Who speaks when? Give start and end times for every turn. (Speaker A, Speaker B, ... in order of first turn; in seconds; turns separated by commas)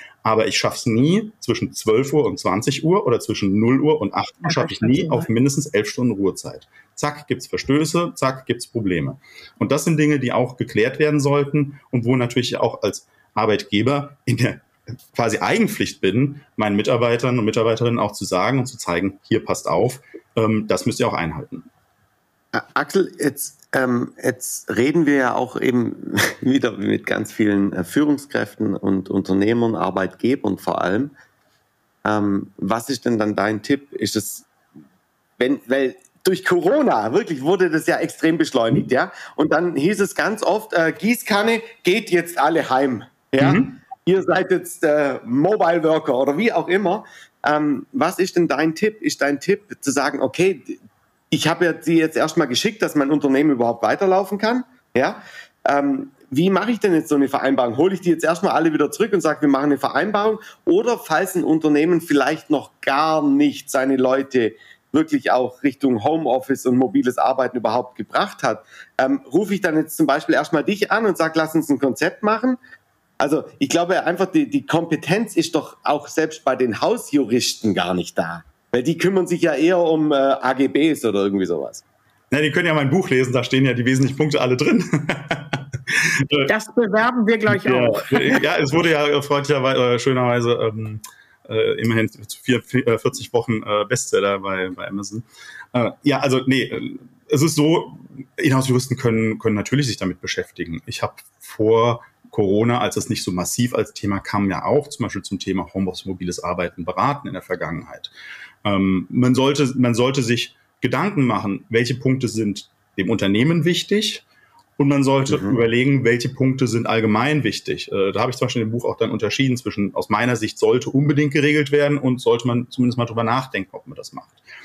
Speaker A: 0.2-21.7, Speaker B: 4.5-5.3, Speaker C: 22.5-31.1, Speaker C: 32.0-34.5, Speaker C: 35.4-50.8, Speaker A: 43.4-43.8, Speaker C: 51.3-72.6, Speaker C: 73.2-81.8, Speaker A: 82.3-86.5, Speaker B: 86.5-88.4, Speaker A: 87.5-108.1, Speaker A: 108.7-114.2, Speaker A: 114.8-124.4, Speaker C: 115.3-115.6